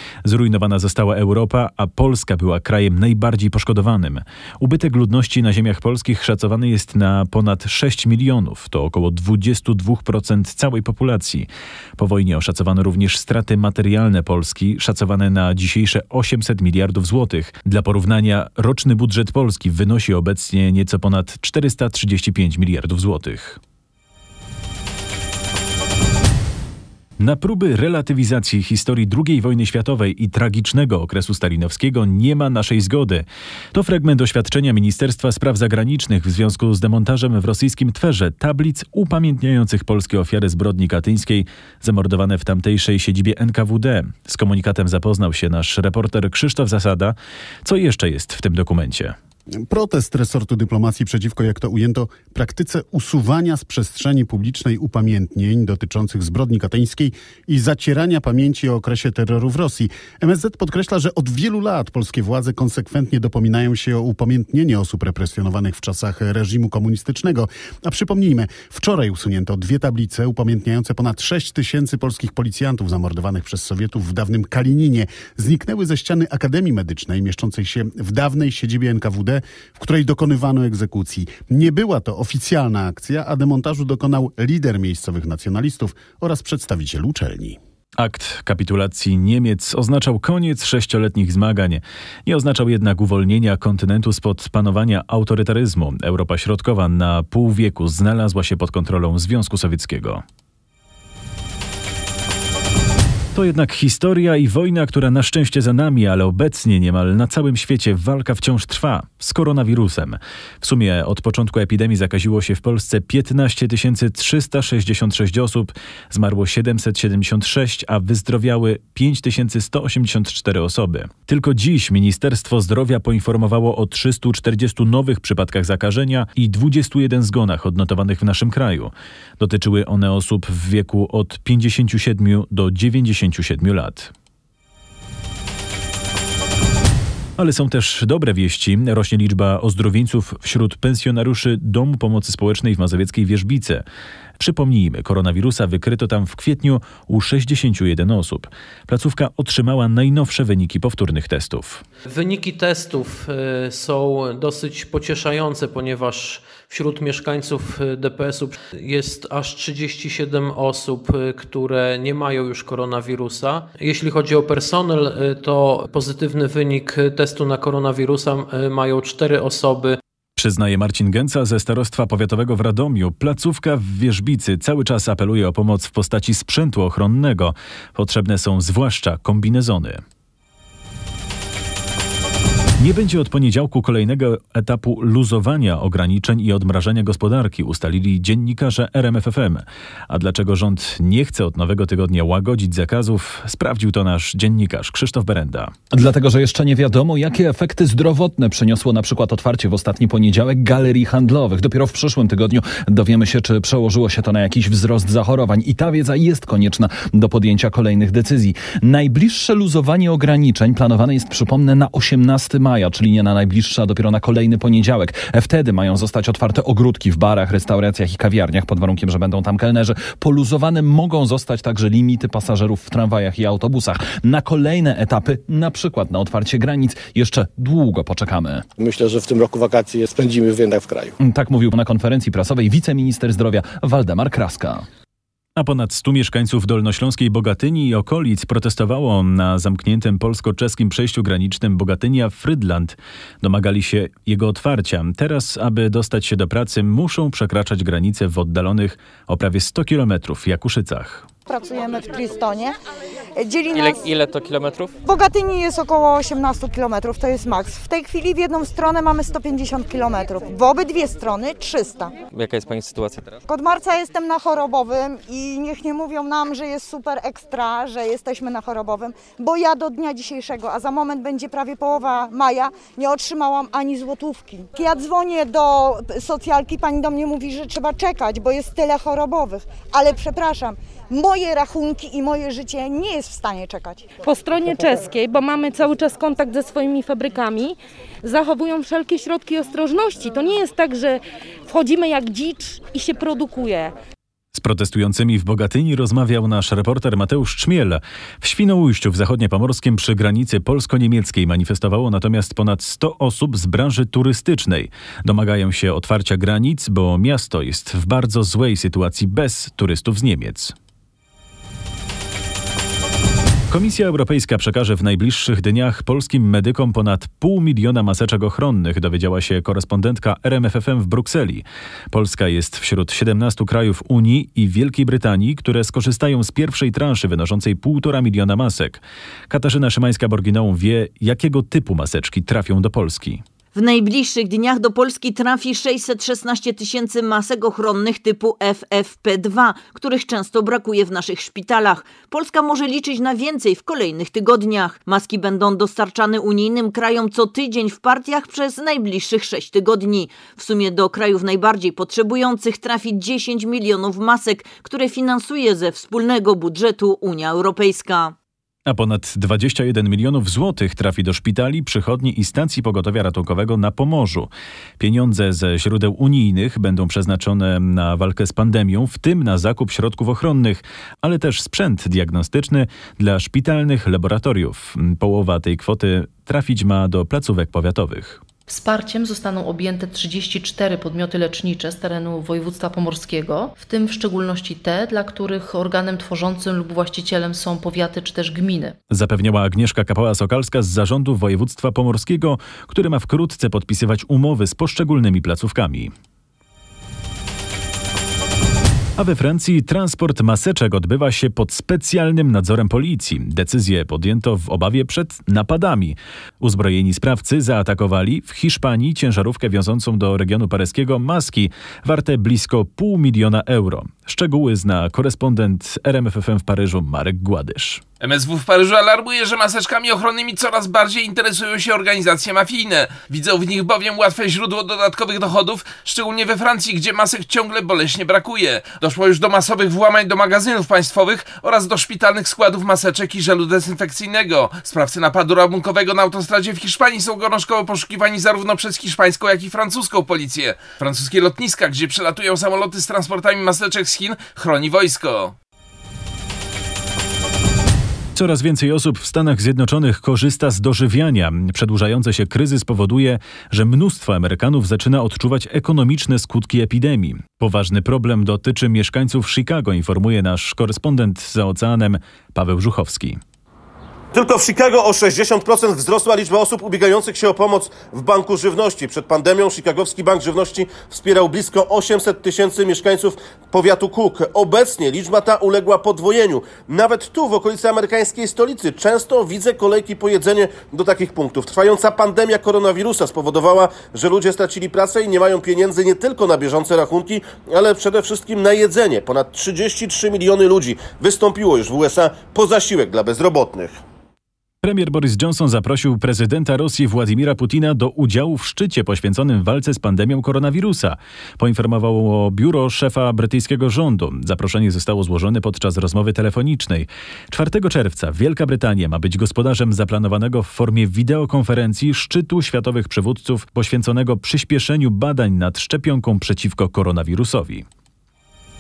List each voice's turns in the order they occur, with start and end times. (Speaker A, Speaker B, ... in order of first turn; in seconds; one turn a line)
Speaker A: 0.2-23.6
Speaker A: 27.2-49.1
Speaker B: 49.6-87.6
Speaker A: 88.0-100.2
Speaker A: 103.3-134.1
Speaker A: 137.4-143.8
Speaker A: 144.4-151.8
Speaker C: 152.1-170.0
Speaker A: 170.4-180.0
Speaker A: 182.8-195.7
Speaker D: 195.9-228.7
Speaker E: 228.8-231.1
Speaker D: 231.2-234.9
Speaker A: 235.6-251.3
Speaker F: 251.5-252.8
Speaker F: 253.4-254.2
Speaker G: 253.8-254.9
Speaker F: 255.0-262.1
Speaker G: 262.4-263.2
Speaker F: 263.5-284.1
Speaker H: 284.2-293.9
Speaker A: 294.6-310.7
Speaker A: 313.7-333.4
Speaker I: 333.7-358.3
Speaker A: 358.9-378.4
Speaker J: 378.7-389.0
Speaker A: 389.1-396.1
Speaker A: 399.2-418.0
Speaker K: 418.2-445.5
Speaker A: 448.4-463.4
Speaker L: 464.3-494.0
Speaker A: 494.8-517.9